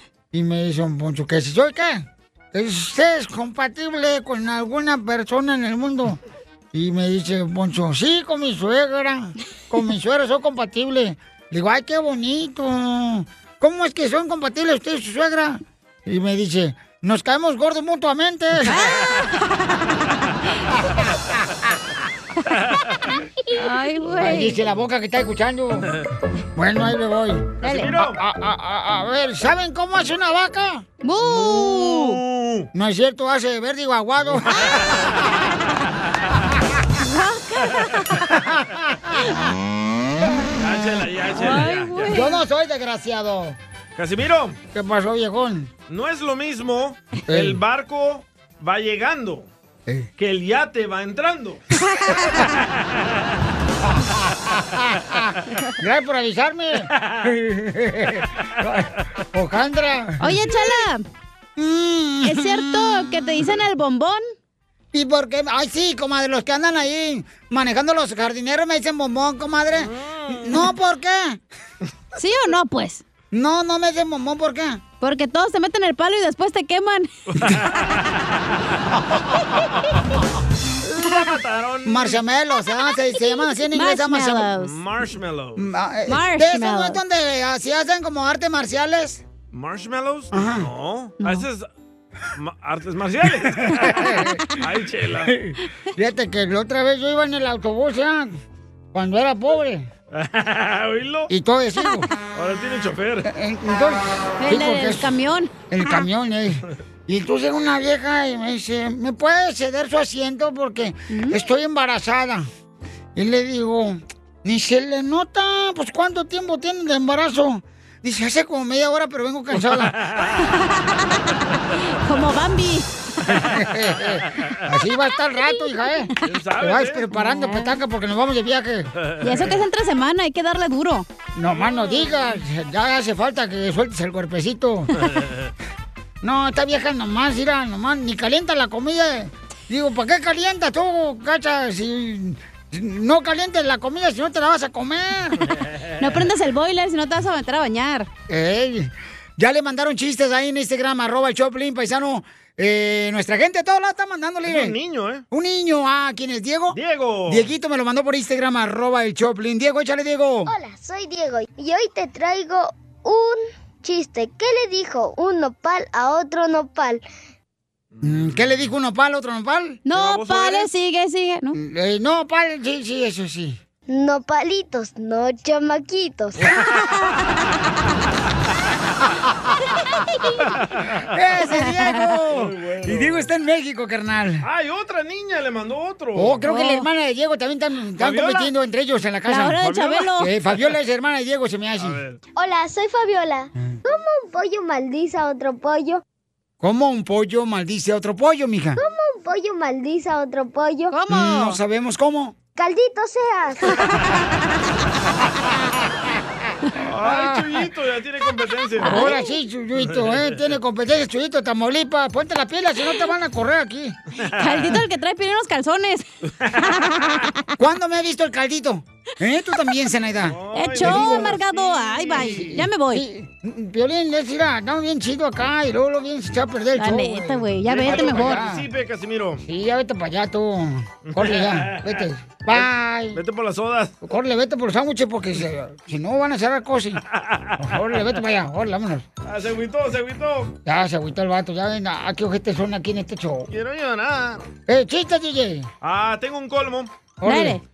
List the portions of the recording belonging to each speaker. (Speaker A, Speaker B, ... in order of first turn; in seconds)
Speaker A: 0.3-6.2, 6.7-18.8, 24.2-25.9, 26.6-30.9, 32.7-35.2, 38.3-39.2, 42.1-43.6, 44.7-45.7, 47.3-47.6, 53.9-60.4, 61.6-63.5, 64.9-71.4, 73.3-74.8, 81.8-84.5, 85.6-89.2, 90.3-90.7, 93.6-94.5, 95.2-98.4, 98.9-99.9, 101.3-102.1, 103.2-105.1, 105.7-112.5, 113.2-119.9, 123.3-128.9, 131.3-134.9, 136.2-145.5, 148.3-154.7, 155.3-156.8, 157.3-160.5, 168.0-169.8, 171.5-173.6, 181.1-184.4, 186.2-192.0, 196.6-198.8, 201.1-202.3, 207.0-207.4, 208.8-214.0, 217.6-221.4, 222.2-228.7, 229.4-233.2, 234.0-237.0, 237.6-239.1, 240.6-243.5, 244.7-245.7, 247.2-247.6
Speaker B: 18.6-19.3, 23.5-24.6, 27.6-27.9, 31.0-32.2, 37.0-38.2, 41.3-42.4, 52.0-52.4, 60.2-61.0, 62.2-64.2, 72.2-73.0, 75.0-77.1, 83.7-84.7, 86.1-87.0, 104.4-106.0, 111.1-111.3, 120.4-123.3, 127.2-127.8, 129.2-131.1, 146.0-148.1, 169.8-171.5, 176.6-177.2, 181.6-182.0, 186.4-186.9, 189.3-190.3, 200.9-201.6, 208.8-209.3, 214.3-216.0, 216.7-217.4, 220.5-223.0, 226.8-228.4, 247.2-247.6
Speaker C: 27.6-28.2, 31.2-32.7, 34.5-35.0, 40.6-42.2, 44.0-44.6, 45.9-49.5, 50.2-51.6, 56.9-57.3, 69.8-70.7, 77.4-77.7, 80.9-82.2, 84.5-85.7, 89.5-91.7, 92.3-95.3, 100.1-101.3, 102.3-103.3, 119.7-120.4, 124.0-124.6, 126.2-127.3, 129.0-129.6, 131.5-132.3, 135.0-135.5, 154.4-155.2, 156.7-157.5, 167.9-168.7, 169.9-170.7, 180.7-181.0, 182.3-183.3, 184.4-186.4, 188.0-188.5, 189.6-190.0, 191.8-192.2, 206.8-209.2, 209.8-210.4, 214.2-214.8, 216.3-216.7, 220.2-222.7, 227.6-229.4, 231.1-233.9, 237.1-237.7, 239.2-240.5, 243.5-244.4, 245.8-246.9
Speaker D: 160.4-167.0, 173.9-176.4, 192.3-196.0, 198.8-200.9, 202.6-203.8